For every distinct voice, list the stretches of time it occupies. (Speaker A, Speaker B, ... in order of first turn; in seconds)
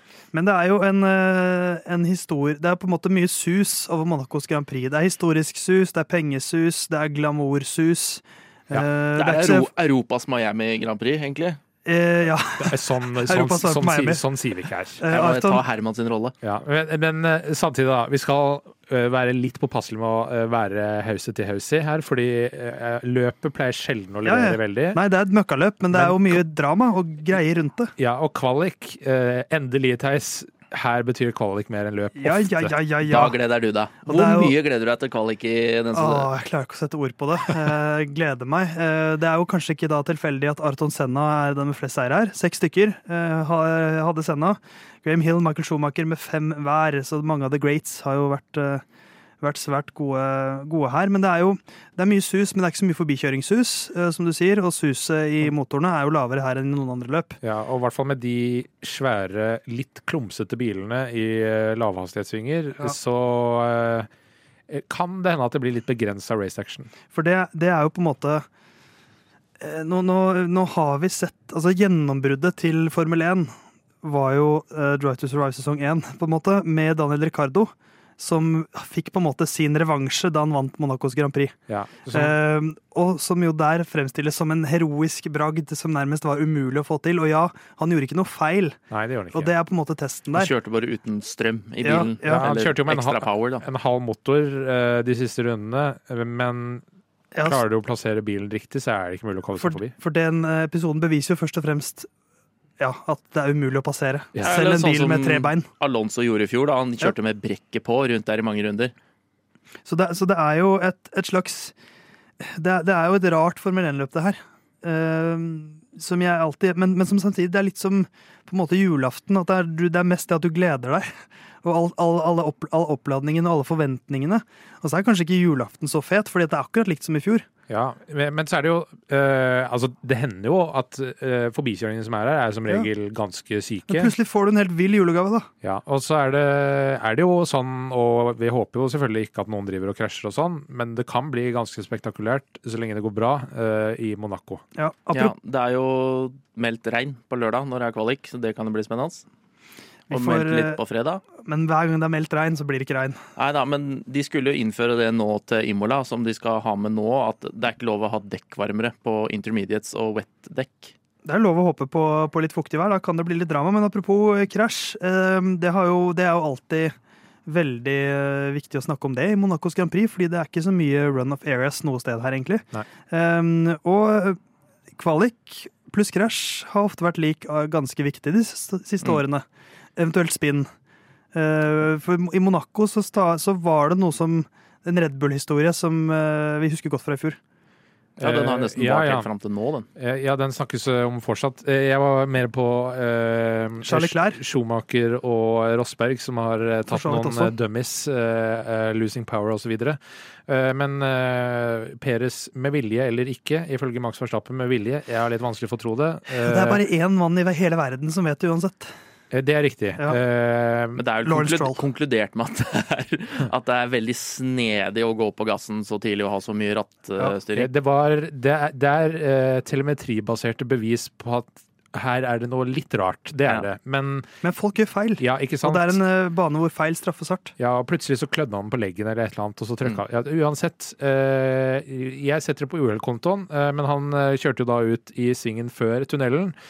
Speaker A: 0.3-9.7, 11.8-14.2, 15.0-15.6, 24.2-27.9, 32.2-33.4, 34.1-34.5, 35.9-48.8, 49.4-57.4, 67.1-68.5, 69.6-81.6, 82.1-88.8, 89.3-90.5, 91.8-92.5, 97.3-97.6, 99.6-102.1, 102.8-105.7, 109.9-111.7, 112.4-127.5, 133.9-135.5, 144.8-145.3, 150.1-150.8, 151.4-153.2, 161.2-166.9, 167.5-174.4, 175.0-179.4, 180.0-180.7, 181.3-187.4, 193.8-194.4, 196.9-197.5, 206.3-208.9, 211.2-211.8, 224.4-227.6
Speaker B: 9.2-11.6, 15.1-16.4, 33.0-36.3, 90.3-93.7, 104.4-108.9, 145.1-149.2, 150.1-151.2, 153.4-160.9, 188.2-189.9, 211.0-217.7
Speaker C: 12.6-15.0, 16.4-25.0, 25.9-26.4, 28.0-32.7, 57.4-64.1, 64.7-66.9, 81.7-82.4, 88.9-89.5, 92.2-96.8, 97.4-99.9, 127.7-134.1, 135.6-144.6, 188.2-189.3, 190.0-206.8, 209.3-211.0, 217.5-224.3, 225.2-226.0, 227.6-236.6